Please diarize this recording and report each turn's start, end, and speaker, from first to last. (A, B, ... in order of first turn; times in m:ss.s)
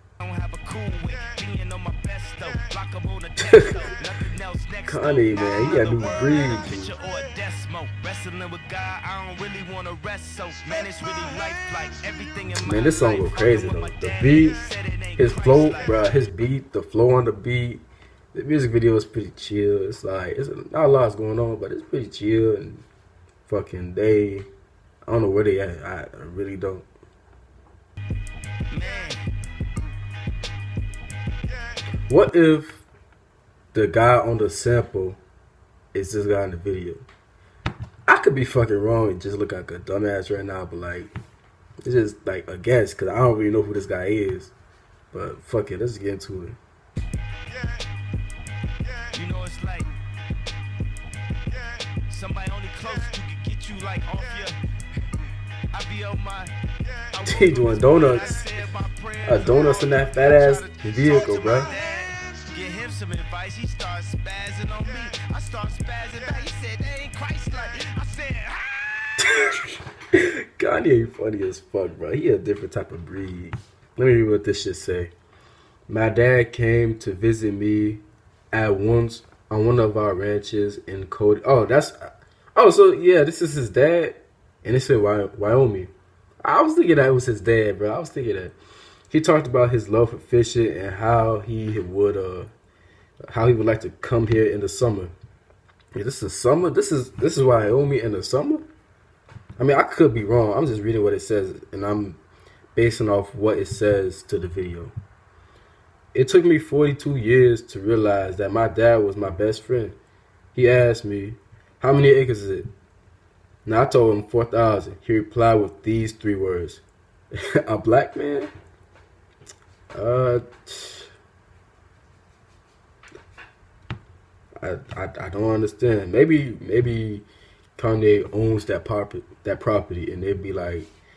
0:00.2-0:16.0 A
0:04.9-0:06.9 B
0:12.5-0:14.6 B
0:15.2-0:22.9 B
0:23.5-0:24.5 B
0:25.1-0:26.9 B
0:28.7-0:29.3 A
0:32.1-0:32.9 B
0:33.7-0:35.2 B
0:35.9-0:37.0 B
0:38.1-0:41.1 B
0:41.8-0:44.5 B
0:45.1-0:46.6 B
0:49.1-0:49.9 A
0:52.1-0:56.5 A
0:57.1-1:09.2 A
0:57.2-0:58.5 B
0:59.3-1:01.7 B
1:09.2-1:15.1 B
1:15.9-1:25.9 B
1:26.4-1:28.6 B
1:29.1-1:32.5 B
1:33.3-1:35.1 B
1:35.9-1:38.7 B
1:39.6-1:42.2 B
1:42.8-1:44.9 B
1:46.1-1:50.0 B
1:50.5-1:52.7 B
1:53.7-1:56.8 B
1:57.6-1:58.5 B
1:59.9-2:01.1 B
2:04.6-2:07.2 B
2:07.8-2:10.9 B